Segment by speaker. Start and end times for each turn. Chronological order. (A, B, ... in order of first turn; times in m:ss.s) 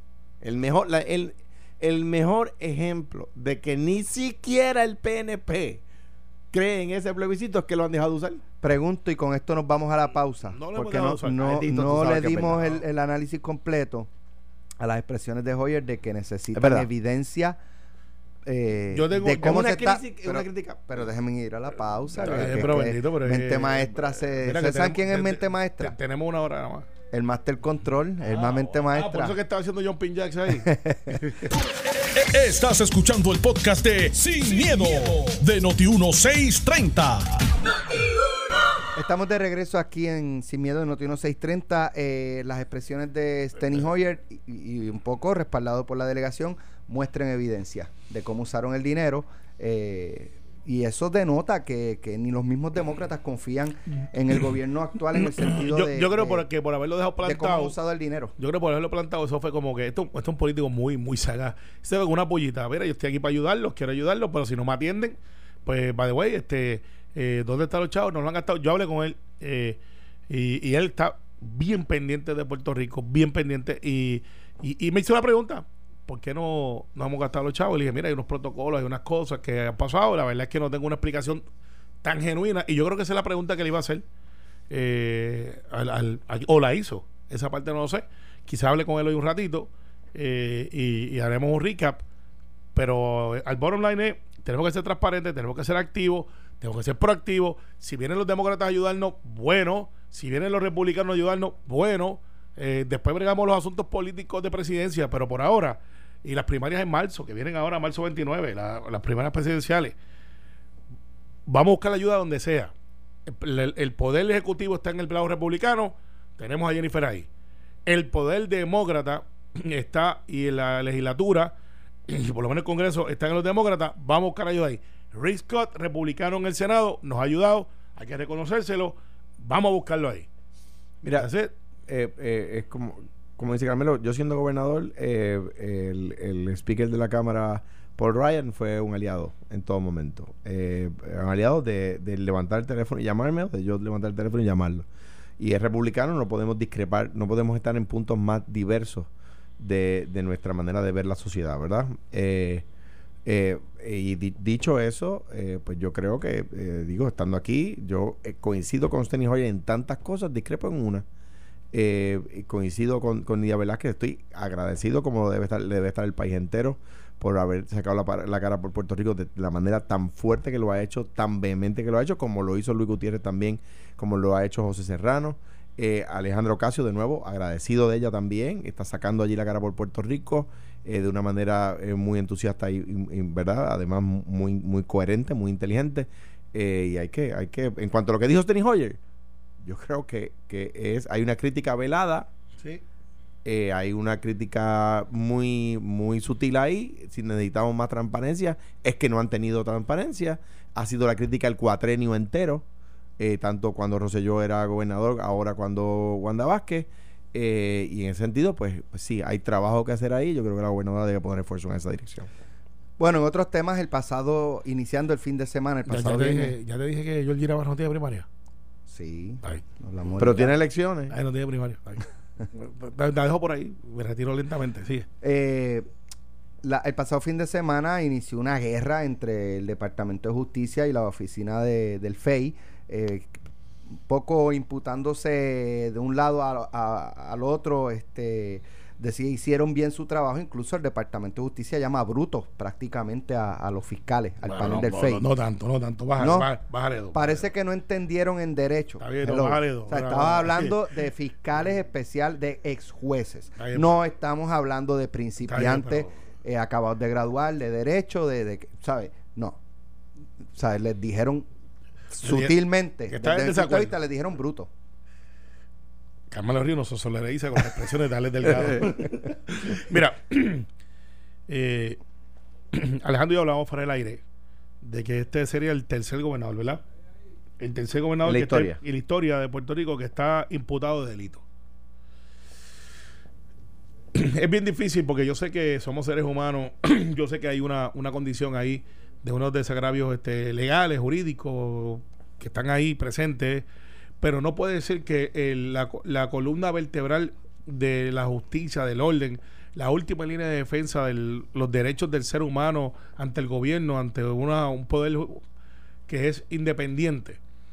0:00.4-0:05.8 A
0:06.5-0:08.4 A
0:08.6-0:14.1 B
0:10.5-0:11.6 C
0:11.4-0:12.7 A
0:14.8-0:17.6 B
0:16.5-0:16.9 A
0:18.4-0:25.9 B
0:18.9-0:19.7 C
0:19.4-0:21.0 A
0:22.2-0:26.9 C
0:27.1-0:29.3 B
0:28.3-0:31.5 C
0:30.6-0:31.2 B
0:32.0-0:37.4 D
0:38.9-0:56.4 B
0:55.2-0:57.7 C
0:57.2-0:58.3 B
0:58.4-1:21.4 C
1:22.0-1:24.0 C
1:24.7-1:32.0 C
1:32.7-1:50.0 C
1:51.5-1:52.7 C
1:53.2-1:57.3 C
1:57.8-2:01.5 C
2:02.1-2:10.3 C
2:11.0-2:11.3 A
2:11.2-2:11.5 C
2:11.9-2:24.9 A
2:25.4-2:32.6 A
2:33.2-2:41.0 A
2:41.7-3:09.0 A
3:09.6-3:12.3 A
3:13.4-3:22.6 A
3:23.2-3:32.3 A
3:33.0-3:36.6 B
3:35.9-3:38.3 C
3:38.9-3:40.5 B
3:40.2-3:41.1 A
3:41.1-3:45.0 C
3:45.2-3:45.8 B
3:46.6-3:53.4 B
3:53.9-4:05.2 B
4:04.4-4:07.4 C
4:06.2-4:06.5 B
4:07.1-4:19.6 B
4:09.0-4:10.7 C
4:13.6-4:13.9 C
4:15.5-4:16.1 C
4:20.5-4:21.5 B
4:22.1-4:24.7 B
4:22.2-4:22.5 C
4:23.1-4:23.9 C
4:26.3-4:30.7 C
4:31.5-4:32.0 C
4:32.7-4:34.2 C
4:34.8-4:36.8 C
4:37.6-4:41.4 C
4:38.2-4:38.8 A
4:44.1-4:53.6 C
4:54.2-5:05.4 C
5:06.1-5:07.4 C